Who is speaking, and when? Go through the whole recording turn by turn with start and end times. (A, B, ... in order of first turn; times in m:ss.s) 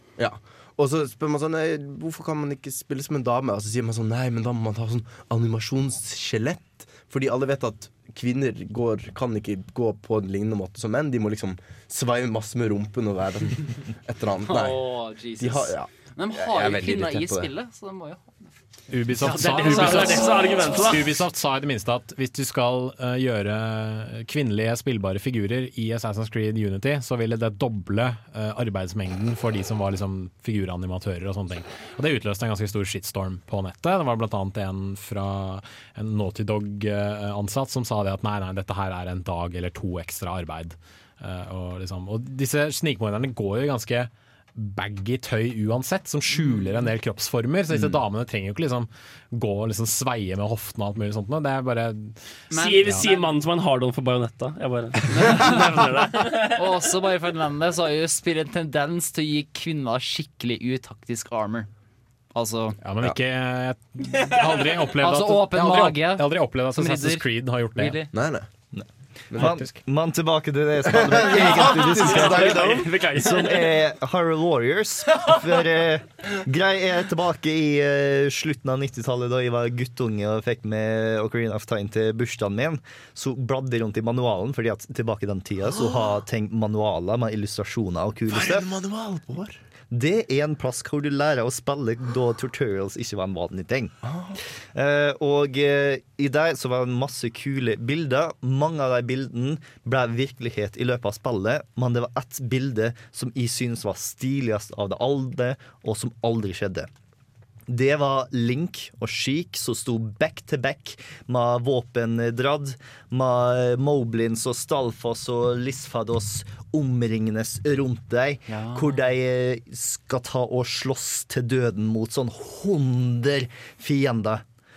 0:00.2-0:14.9 A
0:14.4-0:18.2 B
0:15.4-0:17.5 A
0:18.9-0:52.3 C
0:19.2-0:20.7 B
0:19.3-0:21.1 D
0:52.5-0:53.3 B
0:52.5-0:56.6 D
0:55.2-0:55.5 B
0:56.6-1:01.7 B
1:02.3-1:02.8 B
1:02.8-1:08.0 C
1:05.0-1:08.1 B
1:08.1-1:08.5 A
1:08.7-1:28.6 E
1:09.3-1:09.6 A
1:09.4-1:09.7 C
1:10.9-1:12.9 A
1:11.4-1:13.7 D
1:28.3-1:29.6 A
1:29.9-1:33.9 E
1:34.0-1:34.4 A
1:34.7-1:46.9 E
1:47.7-2:04.4 E
1:58.5-1:59.0 B